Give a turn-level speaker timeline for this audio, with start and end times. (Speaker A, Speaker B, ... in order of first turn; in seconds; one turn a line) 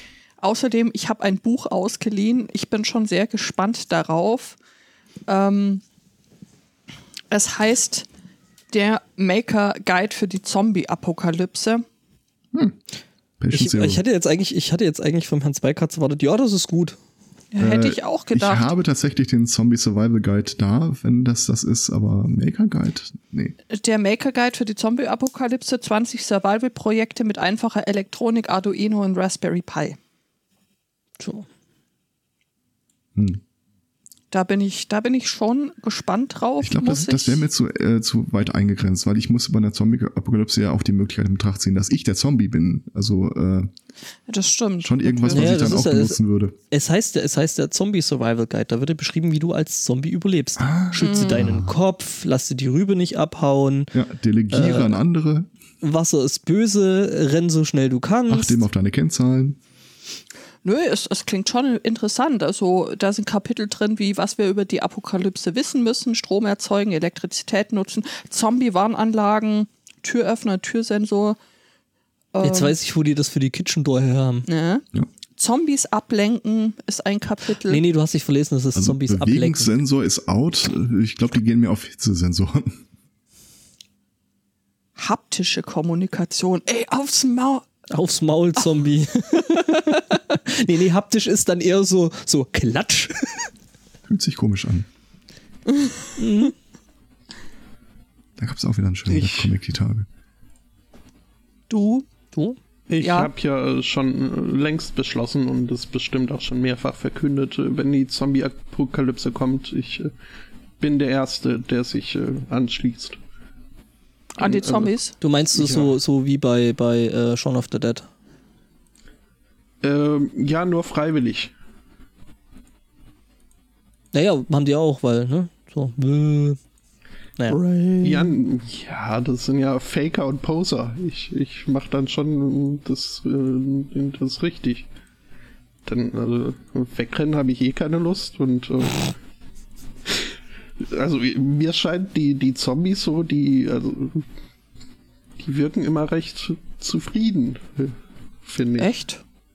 Speaker A: 0.4-4.6
Speaker A: 5.3-5.8
Speaker A: 7.3-8.1
Speaker A: 8.7-11.8
Speaker B: 13.4-14.0
Speaker C: 13.5-17.0
Speaker A: 17.5-18.7
Speaker B: 17.6-23.5
Speaker A: 23.7-30.0
Speaker C: 31.2-31.5
Speaker B: 33.1-33.4
Speaker A: 34.3-37.4
Speaker B: 36.6-43.7
Speaker A: 44.3-45.7
Speaker B: 44.8-46.5
Speaker C: 45.3-53.9
Speaker B: 50.6-51.7
Speaker A: 51.0-51.4
Speaker B: 53.9-55.5
Speaker C: 54.5-55.0
Speaker C: 55.8-58.6
Speaker B: 58.3-59.6
Speaker A: 60.6-71.4
Speaker A: 72.3-72.8
Speaker C: 72.4-74.5
Speaker A: 74.5-74.8
Speaker A: 75.4-77.8
Speaker C: 77.7-79.7
Speaker B: 78.7-82.8
Speaker A: 85.0-87.7
Speaker C: 87.9-93.4
Speaker B: 94.1-94.9
Speaker C: 96.2-96.5
Speaker B: 98.4-100.1
Speaker D: 99.1-99.5
Speaker A: 101.7-102.0
Speaker D: 102.9-110.1
Speaker A: 103.0-103.3
Speaker D: 110.8-113.2
Speaker A: 114.4-115.1
Speaker D: 114.4-114.9
Speaker C: 115.2-118.1
Speaker D: 115.5-115.9
Speaker D: 119.8-121.5
Speaker C: 124.1-126.6
Speaker A: 127.5-128.3
Speaker D: 128.0-134.9
Speaker D: 135.8-139.1
Speaker D: 140.8-144.2
Speaker D: 145.4-148.9
Speaker A: 148.8-149.2